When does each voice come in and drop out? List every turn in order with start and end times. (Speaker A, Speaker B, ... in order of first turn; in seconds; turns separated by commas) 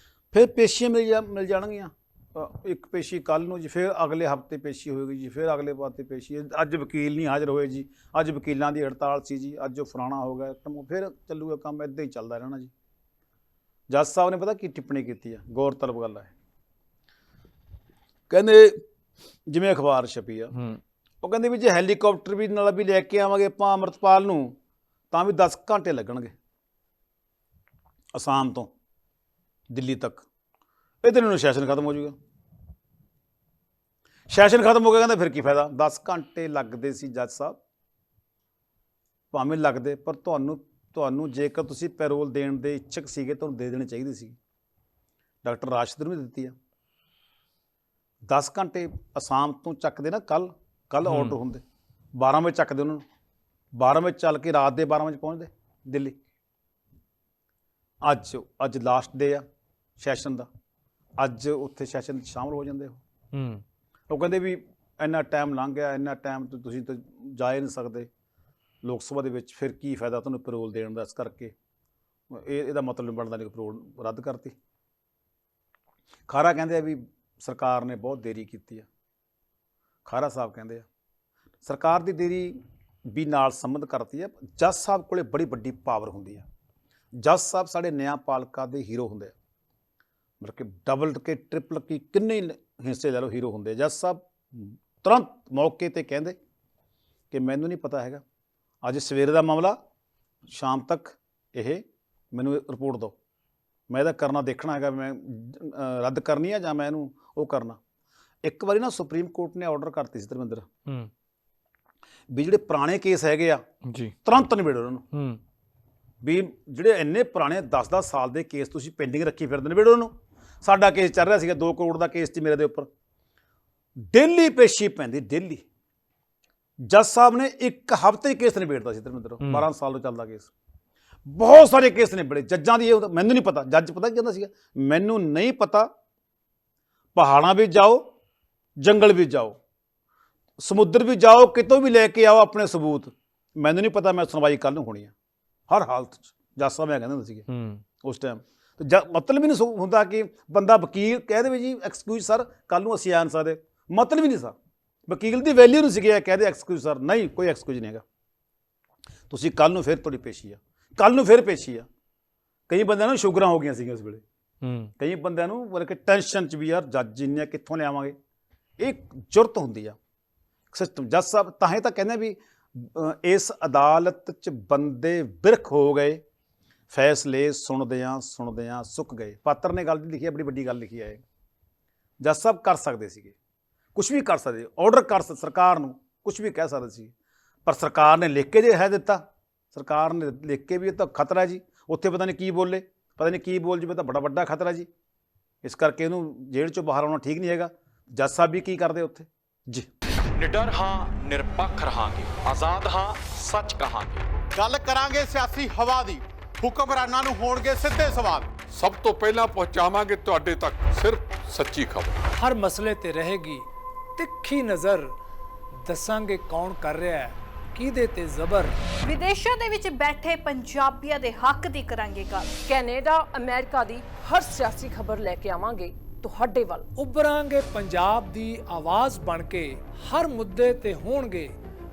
Speaker A: 0.3-12.7, Speaker A: 13.9-16.3, Speaker A: 18.3-18.8, Speaker A: 19.5-20.5, Speaker A: 21.2-24.6, Speaker A: 25.1-26.3, Speaker A: 28.1-28.7, Speaker A: 29.7-30.2, Speaker A: 31.0-32.1, Speaker A: 34.3-37.6, Speaker A: 39.3-44.4, Speaker A: 45.4-46.5, Speaker A: 48.3-51.6, Speaker B: 51.0-51.4, Speaker A: 52.2-53.0, Speaker A: 53.8-56.1, Speaker A: 58.0-59.4, Speaker A: 60.0-60.5, Speaker A: 61.2-63.0, Speaker B: 63.3-63.6, Speaker A: 64.1-68.1, Speaker A: 68.8-71.5, Speaker A: 72.3-74.5, Speaker A: 76.3-78.9, Speaker A: 80.1-80.8, Speaker A: 81.7-82.6, Speaker A: 83.1-86.5, Speaker A: 87.2-89.3, Speaker A: 90.4-96.3, Speaker A: 97.3-98.2, Speaker A: 98.8-99.8, Speaker A: 100.5-103.1, Speaker A: 103.9-107.8, Speaker A: 108.4-110.7, Speaker A: 112.3-113.6, Speaker B: 113.9-114.1, Speaker A: 114.2-115.0, Speaker B: 115.1-115.4, Speaker A: 116.2-120.1, Speaker A: 120.6-122.9, Speaker A: 124.1-125.6, Speaker A: 126.8-130.5, Speaker B: 129.4-129.7, Speaker A: 131.3-135.9, Speaker A: 137.2-138.0, Speaker A: 138.8-139.6, Speaker A: 140.6-145.1, Speaker A: 145.7-147.4, Speaker B: 147.5-147.8, Speaker A: 148.0-154.5, Speaker A: 155.1-158.0, Speaker A: 159.3-161.9, Speaker A: 162.7-164.2, Speaker B: 164.6-164.9, Speaker A: 165.0-168.2, Speaker A: 168.8-170.0, Speaker A: 170.7-176.2, Speaker A: 176.9-181.2, Speaker A: 182.2-183.3, Speaker A: 183.9-187.1, Speaker A: 187.7-189.2, Speaker A: 189.7-194.9, Speaker A: 195.6-199.9, Speaker C: 200.4-204.2, Speaker D: 204.6-208.5, Speaker E: 208.7-212.1, Speaker F: 212.3-213.7, Speaker F: 214.2-215.1, Speaker F: 215.8-218.7, Speaker G: 219.1-222.6, Speaker H: 222.6-226.9, Speaker F: 226.9-231.5